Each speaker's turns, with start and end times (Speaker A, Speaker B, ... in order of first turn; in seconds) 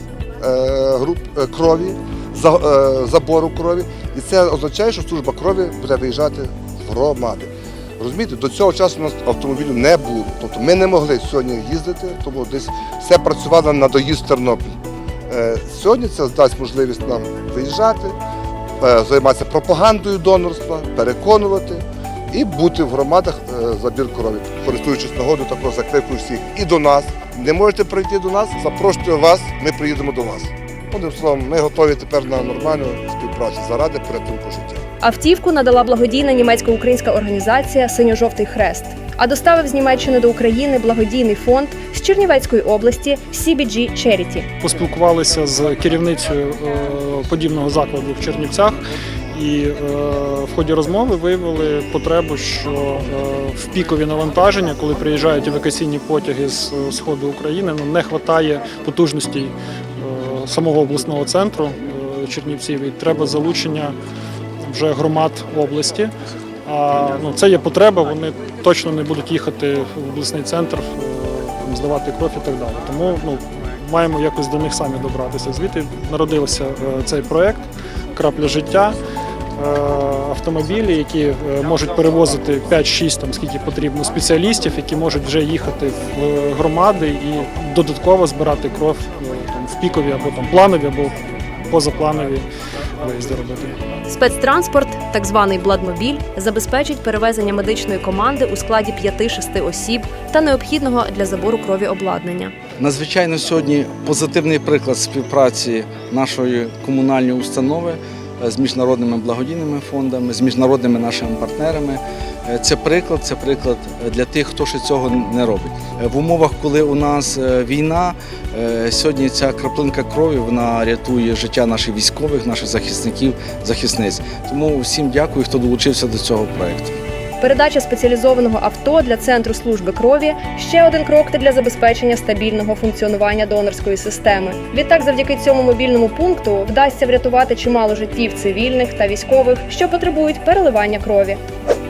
Speaker A: 0.4-14.6, 15.3-18.1, 18.8-34.8
Speaker B: 35.0-44.5, 94.1-102.5, 127.4-141.4
Speaker C: 44.6-48.8, 49.3-64.0, 64.6-66.1, 66.6-79.0, 79.6-92.5, 93.0-93.8
Speaker D: 102.8-126.9